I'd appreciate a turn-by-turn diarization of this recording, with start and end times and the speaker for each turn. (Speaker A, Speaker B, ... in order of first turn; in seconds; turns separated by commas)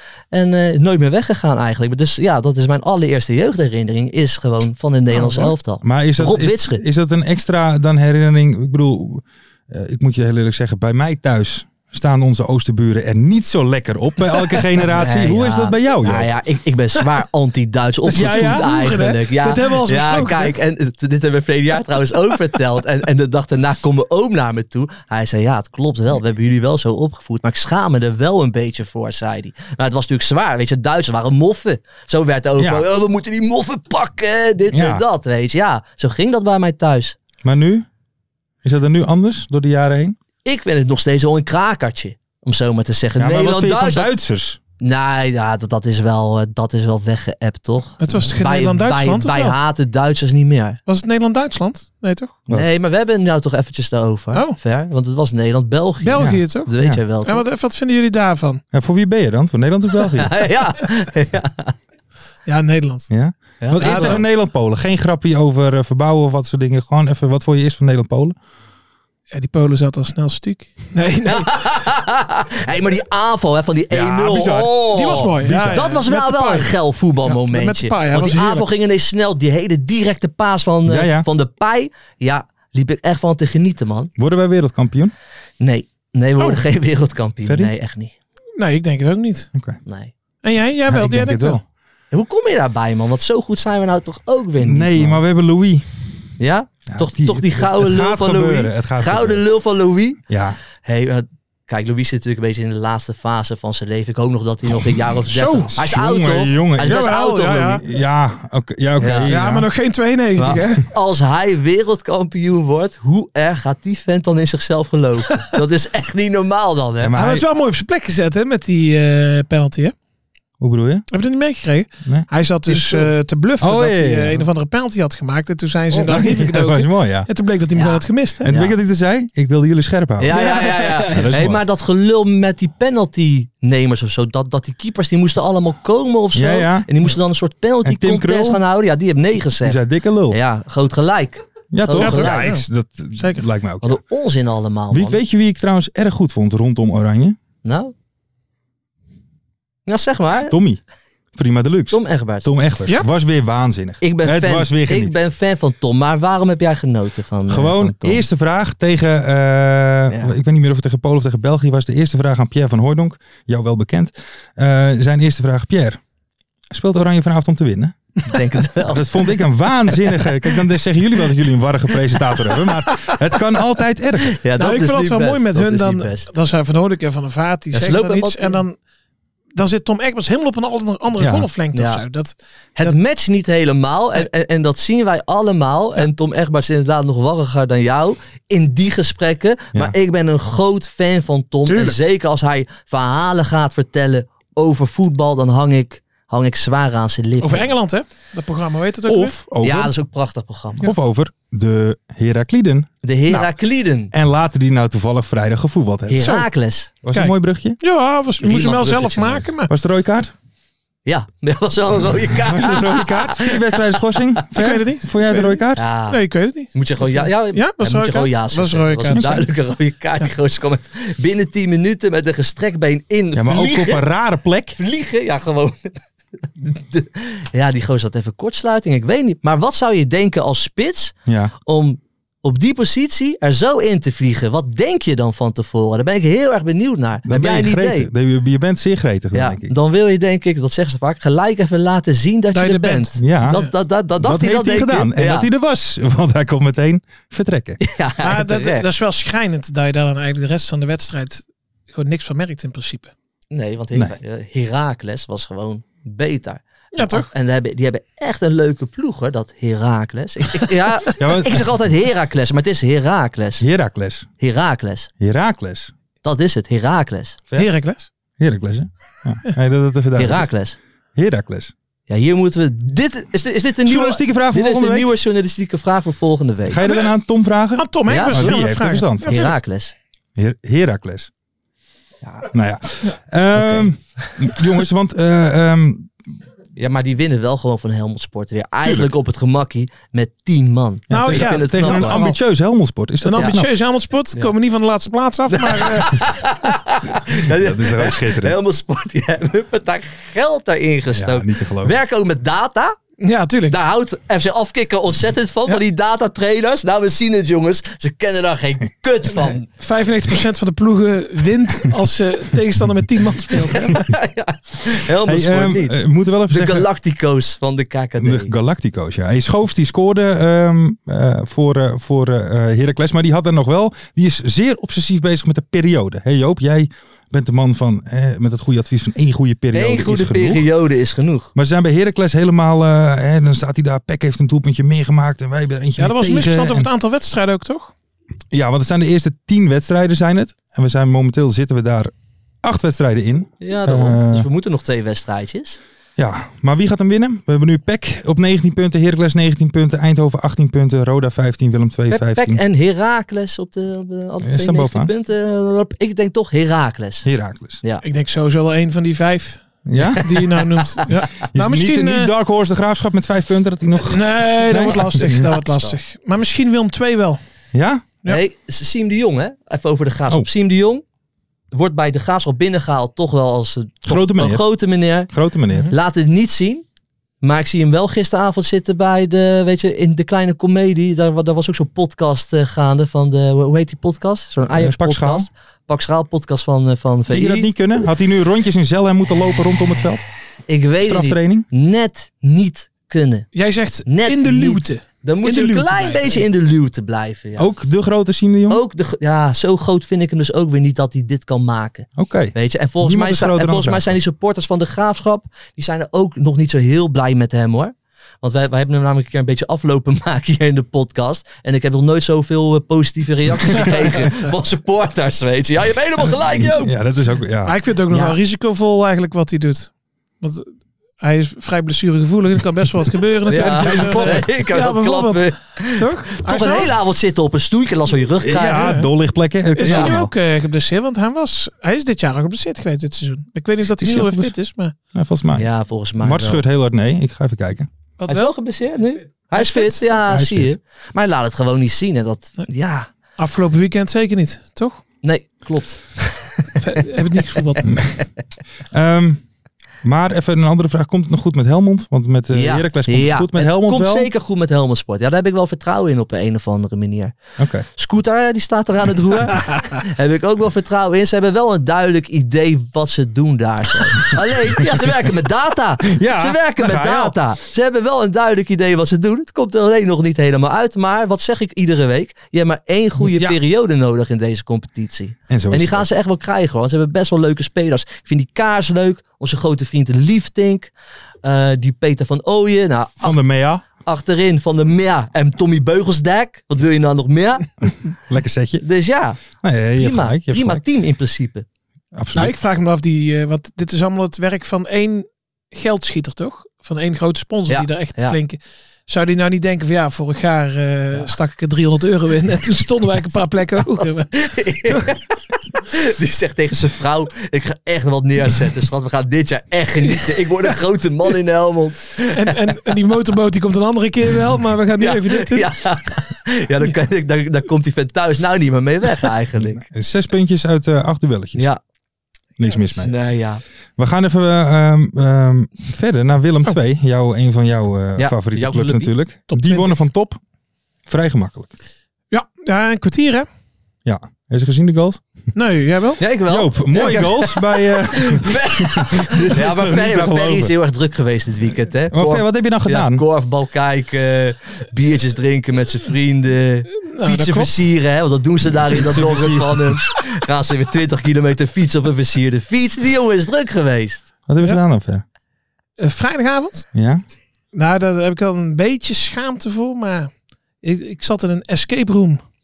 Speaker A: 0.3-6.8, Speaker B: 5.2-5.5, Speaker C: 5.8-16.3, Speaker A: 14.9-37.2, Speaker B: 18.1-20.6, Speaker C: 18.1-18.7, Speaker C: 32.6-32.9, Speaker C: 34.7-35.0, Speaker C: 37.4-37.9, Speaker C: 38.6-40.2, Speaker A: 40.5-44.1, Speaker C: 43.2-44.6, Speaker A: 44.8-50.8, Speaker B: 48.0-49.6, Speaker B: 50.9-52.4, Speaker A: 52.5-57.5, Speaker B: 56.0-56.7, Speaker C: 56.2-57.0, Speaker B: 57.2-58.6, Speaker C: 58.7-60.5, Speaker A: 60.1-61.7, Speaker B: 62.5-63.1, Speaker C: 63.1-68.4, Speaker A: 63.6-64.2, Speaker B: 63.8-64.2, Speaker B: 69.3-71.6, Speaker A: 71.2-84.1, Speaker C: 73.9-74.8, Speaker B: 74.9-78.7, Speaker C: 75.4-76.0, Speaker C: 80.9-81.3, Speaker C: 84.2-85.1, Speaker A: 85.6-88.1, Speaker B: 86.4-86.6, Speaker C: 87.5-87.7, Speaker B: 88.6-89.5, Speaker C: 89.5-89.8, Speaker A: 89.8-90.1, Speaker B: 90.4-91.6, Speaker C: 90.9-91.6, Speaker A: 92.1-95.2, Speaker C: 94.6-95.9, Speaker A: 96.4-100.2, Speaker C: 96.9-99.4, Speaker C: 100.3-100.6, Speaker A: 100.8-107.8, Speaker B: 105.3-105.7, Speaker C: 105.7-107.1, Speaker B: 106.8-107.8, Speaker C: 107.8-109.7, Speaker A: 109.0-109.4, Speaker B: 109.3-110.8, Speaker A: 110.4-117.2, Speaker C: 117.0-117.5, Speaker B: 117.2-120.0, Speaker C: 120.6-121.1, Speaker B: 121.1-128.5, Speaker C: 122.0-123.1, Speaker C: 123.6-124.5, Speaker C: 125.9-127.3, Speaker A: 127.8-128.8, Speaker C: 128.4-131.6, Speaker A: 130.2-142.5, Speaker B: 130.3-131.3, Speaker C: 136.3-136.9, Speaker C: 137.8-138.6, Speaker C: 139.6-140.4, Speaker C: 141.7-144.0, Speaker B: 142.0-143.5, Speaker A: 143.8-145.2, Speaker C: 144.9-147.4, Speaker A: 147.6-147.9, Speaker A: 149.9-150.6, Speaker C: 150.5-150.8, Speaker C: 151.3-155.2, Speaker A: 151.9-152.5, Speaker A: 154.0-158.2, Speaker C: 157.5-166.0, Speaker A: 160.1-160.3, Speaker C: 166.7-168.0, Speaker A: 168.2-169.1, Speaker C: 168.8-174.4, Speaker A: 172.5-173.1, Speaker A: 174.2-176.3, Speaker B: 174.6-178.8, Speaker A: 177.7-178.6, Speaker B: 179.6-183.0, Speaker C: 181.2-181.5, Speaker A: 181.7-182.0, Speaker A: 182.8-197.7, Speaker B: 191.7-192.0, Speaker B: 197.4-199.4, Speaker C: 199.1-199.9, Speaker A: 199.6-200.8, Speaker C: 200.8-203.5, Speaker A: 203.0-204.1, Speaker C: 204.1-206.3, Speaker A: 206.1-206.9, Speaker B: 206.2-206.5, Speaker C: 207.0-207.8, Speaker B: 207.1-209.7, Speaker A: 208.4-209.4, Speaker C: 209.7-210.3, Speaker A: 211.1-214.2, Speaker C: 212.4-215.8, Speaker B: 214.6-219.5, Speaker A: 215.8-216.2, Speaker A: 216.7-224.1, Speaker C: 219.1-219.4, Speaker C: 223.3-224.8, Speaker A: 224.8-226.0, Speaker A: 226.6-238.1, Speaker C: 231.3-231.5, Speaker C: 237.3-239.7, Speaker A: 239.3-245.5, Speaker B: 242.5-243.7, Speaker C: 243.2-243.6, Speaker C: 244.2-247.8, Speaker A: 247.8-248.9, Speaker B: 248.2-253.1, Speaker A: 253.5-263.6, Speaker B: 256.9-257.3, Speaker C: 261.2-261.7, Speaker C: 263.6-264.3, Speaker A: 264.4-265.1, Speaker C: 265.2-265.9, Speaker A: 266.2-267.4, Speaker B: 267.6-268.1, Speaker C: 268.4-270.5, Speaker A: 270.2-270.8, Speaker C: 271.1-271.7, Speaker A: 272.1-276.8, Speaker C: 273.8-275.1, Speaker C: 276.7-279.4, Speaker B: 276.8-277.2, Speaker B: 277.8-279.6, Speaker A: 278.1-278.6, Speaker A: 279.3-279.9, Speaker C: 280.4-281.3, Speaker A: 282.2-282.5, Speaker C: 282.5-286.1, Speaker A: 283.5-284.6, Speaker A: 286.8-292.3, Speaker C: 288.8-289.1, Speaker C: 291.1-293.7, Speaker B: 291.1-292.4, Speaker B: 293.2-296.4, Speaker A: 295.5-303.0, Speaker C: 297.4-298.6, Speaker C: 301.1-302.0, Speaker B: 303.2-303.8, Speaker A: 303.7-309.7, Speaker B: 309.3-314.1, Speaker A: 313.7-318.5, Speaker C: 315.3-316.9, Speaker C: 318.2-330.7, Speaker A: 329.7-331.5, Speaker C: 331.6-336.9, Speaker B: 336.0-337.9, Speaker C: 338.5-342.1, Speaker C: 342.6-344.5, Speaker A: 343.6-345.8, Speaker C: 346.2-352.6, Speaker A: 352.1-357.3, Speaker C: 354.4-355.1, Speaker C: 357.2-357.8, Speaker B: 358.0-362.3, Speaker C: 359.9-360.4, Speaker C: 361.5-365.5, Speaker B: 364.0-367.4, Speaker A: 365.2-366.0, Speaker C: 367.7-368.1, Speaker A: 368.3-371.0, Speaker A: 371.7-375.3, Speaker C: 374.1-374.6, Speaker C: 375.3-375.9, Speaker A: 375.9-376.8, Speaker A: 377.4-387.7, Speaker C: 384.7-385.5, Speaker C: 387.3-390.2, Speaker A: 390.7-393.5, Speaker C: 391.0-391.7, Speaker B: 393.5-396.4, Speaker A: 394.1-397.7, Speaker C: 397.6-398.8, Speaker A: 398.7-416.9, Speaker C: 402.2-404.2, Speaker C: 416.3-417.8, Speaker B: 417.7-426.9, Speaker A: 418.1-418.4, Speaker A: 423.5-428.9, Speaker C: 423.5-424.5, Speaker C: 428.4-430.3, Speaker B: 428.6-429.1, Speaker B: 429.8-434.9, Speaker A: 429.8-430.1, Speaker C: 433.8-434.6, Speaker C: 435.1-437.9, Speaker A: 435.6-436.6, Speaker B: 438.2-438.5, Speaker A: 438.3-443.1, Speaker B: 439.5-440.0, Speaker C: 440.1-440.8, Speaker B: 443.4-445.0, Speaker A: 445.2-447.0, Speaker B: 446.8-447.9, Speaker C: 448.9-449.4, Speaker C: 450.0-454.3, Speaker A: 452.5-457.4, Speaker C: 457.6-457.9, Speaker A: 457.9-480.9, Speaker C: 466.0-467.4, Speaker C: 473.2-473.6, Speaker C: 475.5-476.1, Speaker A: 481.4-483.4, Speaker C: 483.2-483.8, Speaker A: 484.0-487.7, Speaker C: 488.3-488.9, Speaker A: 488.8-489.4, Speaker C: 489.5-490.8, Speaker A: 489.9-491.7, Speaker C: 492.1-492.6, Speaker B: 492.3-505.1, Speaker A: 497.7-498.4, Speaker A: 504.0-512.6, Speaker B: 512.3-515.7, Speaker A: 515.0-519.8, Speaker C: 519.6-521.7, Speaker C: 522.6-523.1, Speaker A: 523.0-523.6, Speaker C: 524.0-530.4, Speaker A: 528.2-529.1, Speaker B: 529.5-530.0, Speaker C: 531.1-531.7, Speaker B: 532.3-533.5, Speaker C: 534.1-535.2, Speaker B: 535.5-536.2, Speaker A: 536.2-554.3, Speaker C: 536.5-540.7, Speaker C: 542.1-543.2, Speaker B: 547.1-547.8, Speaker C: 548.8-550.0, Speaker C: 554.5-555.2, Speaker B: 556.0-556.9, Speaker C: 557.0-557.2, Speaker B: 557.7-560.3, Speaker B: 560.8-562.4